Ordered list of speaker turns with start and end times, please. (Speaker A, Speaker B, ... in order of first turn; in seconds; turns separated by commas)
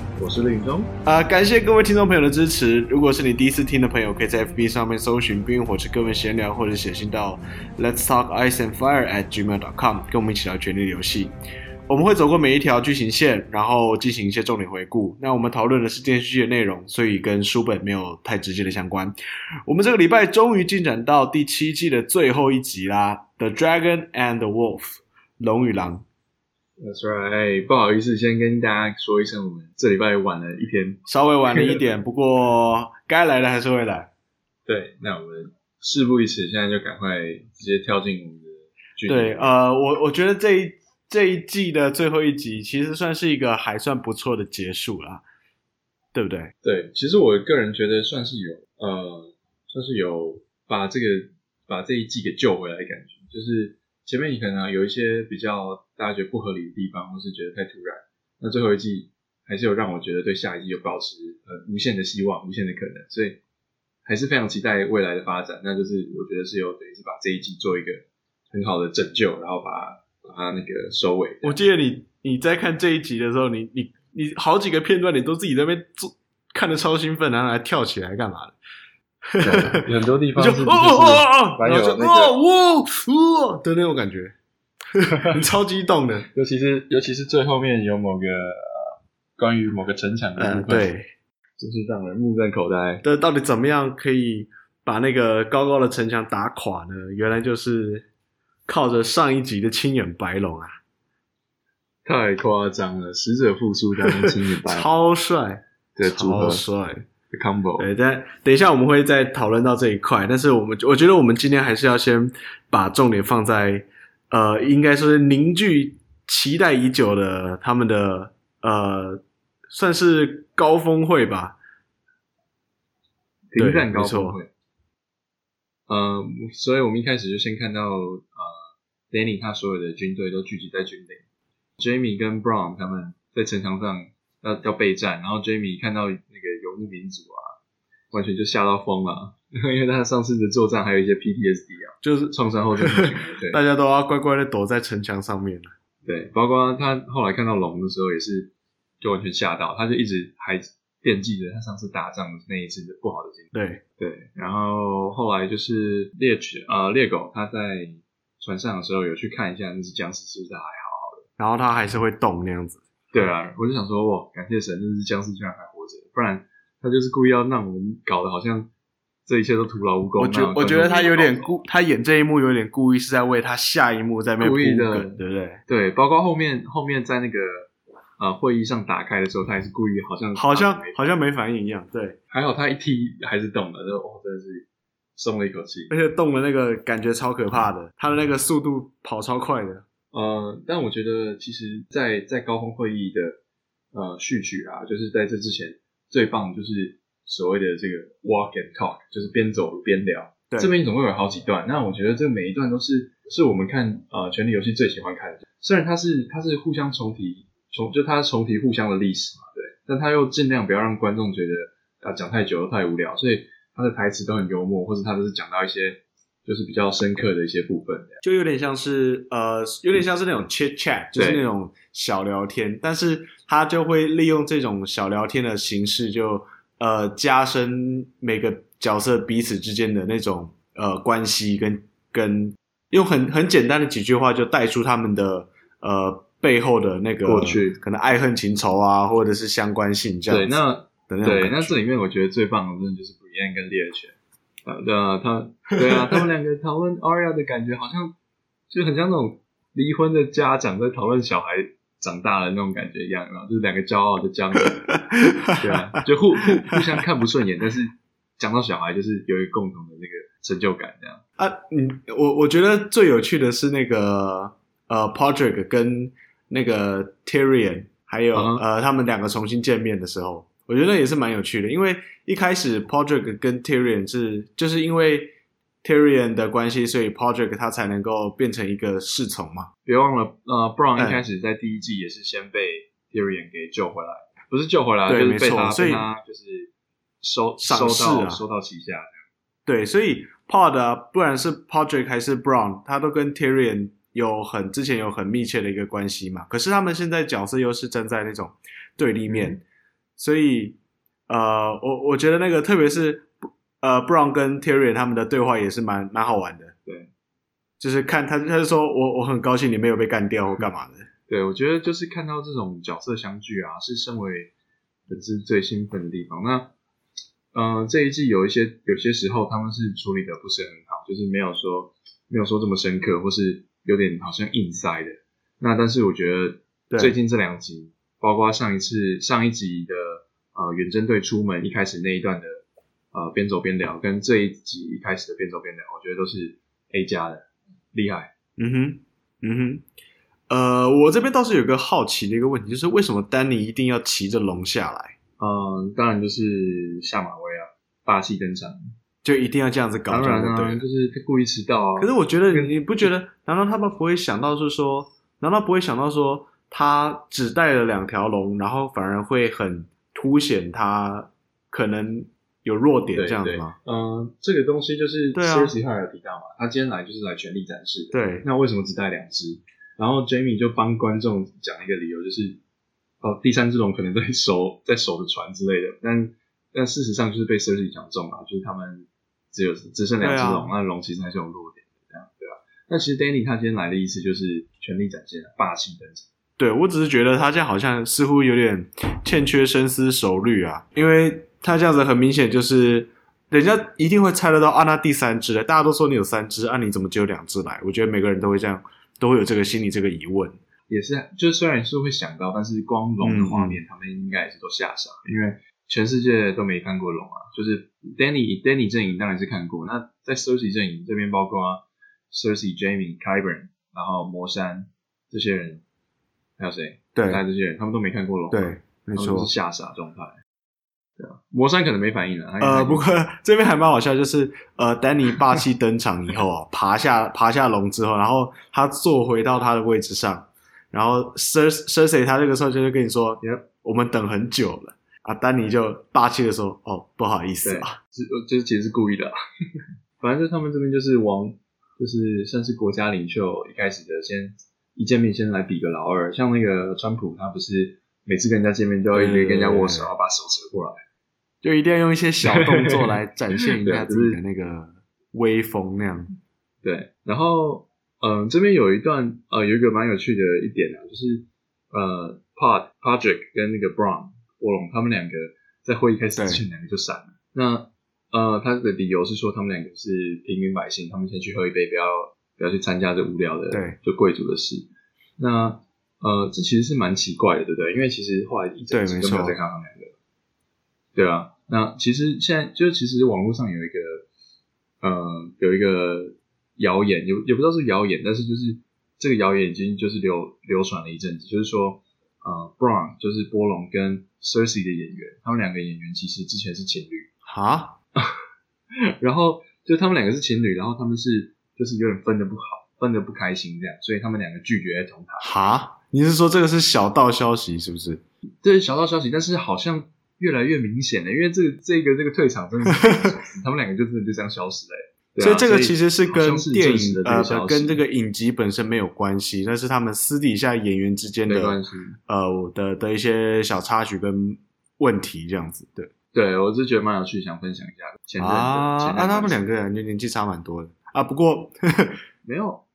Speaker A: 0.2-0.9, Speaker B: 1.1-11.3, Speaker B: 11.9-26.1, Speaker A: 26.8-31.8, Speaker B: 31.1-34.1, Speaker A: 34.7-39.5, Speaker B: 39.1-45.2, Speaker B: 46.1-46.5, Speaker A: 46.6-63.4, Speaker A: 64.1-71.6, Speaker B: 71.4-78.5, Speaker B: 79.3-84.3, Speaker A: 79.4-82.3, Speaker B: 84.9-86.3, Speaker A: 85.0-85.3, Speaker A: 86.3-90.9, Speaker B: 90.4-91.1, Speaker A: 91.6-93.0, Speaker B: 93.0-98.1, Speaker B: 98.7-100.7, Speaker A: 102.0-104.9, Speaker B: 104.1-107.0, Speaker A: 106.0-106.7, Speaker A: 107.3-107.9, Speaker B: 107.8-121.6, Speaker A: 123.5-124.5, Speaker B: 123.6-124.4, Speaker A: 125.9-131.2, Speaker A: 131.8-137.5, Speaker A: 138.1-143.6, Speaker B: 142.0-145.7, Speaker A: 146.0-161.2, Speaker B: 153.5-153.8, Speaker B: 161.4-162.8, Speaker A: 163.1-168.7, Speaker A: 169.2-171.6, Speaker B: 170.2-175.6, Speaker A: 174.4-181.0, Speaker B: 180.3-182.2, Speaker A: 182.3-185.9, Speaker B: 185.9-189.8, Speaker A: 190.1-193.4, Speaker A: 193.9-218.2, Speaker B: 218.2-240.6, Speaker A: 221.1-221.4, Speaker A: 237.2-237.8, Speaker A: 240.3-248.2, Speaker B: 241.1-241.7, Speaker A: 248.7-254.9, Speaker B: 254.9-255.8, Speaker A: 255.5-261.2, Speaker B: 261.4-275.3, Speaker A: 268.3-268.6, Speaker B: 275.8-279.7, Speaker A: 279.9-289.2, Speaker B: 281.0-281.2, Speaker B: 285.1-286.0, Speaker B: 287.6-288.4, Speaker B: 289.7-299.6, Speaker A: 299.3-299.6, Speaker B: 300.2-300.8, Speaker B: 301.3-306.7, Speaker B: 307.8-311.1, Speaker A: 311.3-314.5, Speaker A: 315.1-316.7, Speaker A: 317.5-338.3, Speaker B: 326.9-327.1, Speaker B: 338.6-339.9, Speaker B: 340.5-345.2, Speaker A: 345.4-348.9, Speaker B: 349.2-350.8, Speaker A: 350.1-353.1, Speaker B: 352.0-363.8, Speaker A: 363.1-372.6, Speaker B: 365.3-365.8, Speaker B: 368.1-368.5, Speaker A: 373.2-386.3, Speaker B: 380.2-380.7, Speaker B: 386.6-400.6, Speaker A: 400.9-415.8, Speaker B: 403.2-403.8, Speaker A: 416.6-420.4, Speaker B: 417.1-417.4, Speaker B: 418.5-419.5, Speaker A: 421.2-423.1, Speaker B: 422.6-438.0, Speaker A: 433.4-433.7, Speaker A: 437.6-439.3, Speaker A: 440.2-451.0, Speaker B: 449.1-450.1, Speaker B: 451.6-456.3, Speaker A: 452.4-453.2, Speaker A: 453.8-454.4, Speaker A: 456.8-474.9, Speaker B: 466.4-466.6, Speaker B: 473.7-474.0, Speaker A: 475.4-480.1, Speaker B: 478.9-479.6, Speaker A: 481.1-484.2, Speaker A: 485.0-497.3, Speaker B: 497.4-498.0, Speaker A: 499.2-505.6, Speaker B: 505.4-508.2, Speaker A: 508.6-518.0, Speaker B: 513.0-513.3, Speaker B: 515.4-526.1, Speaker A: 521.5-522.1, Speaker A: 526.3-529.6, Speaker B: 528.4-532.2, Speaker A: 532.5-532.8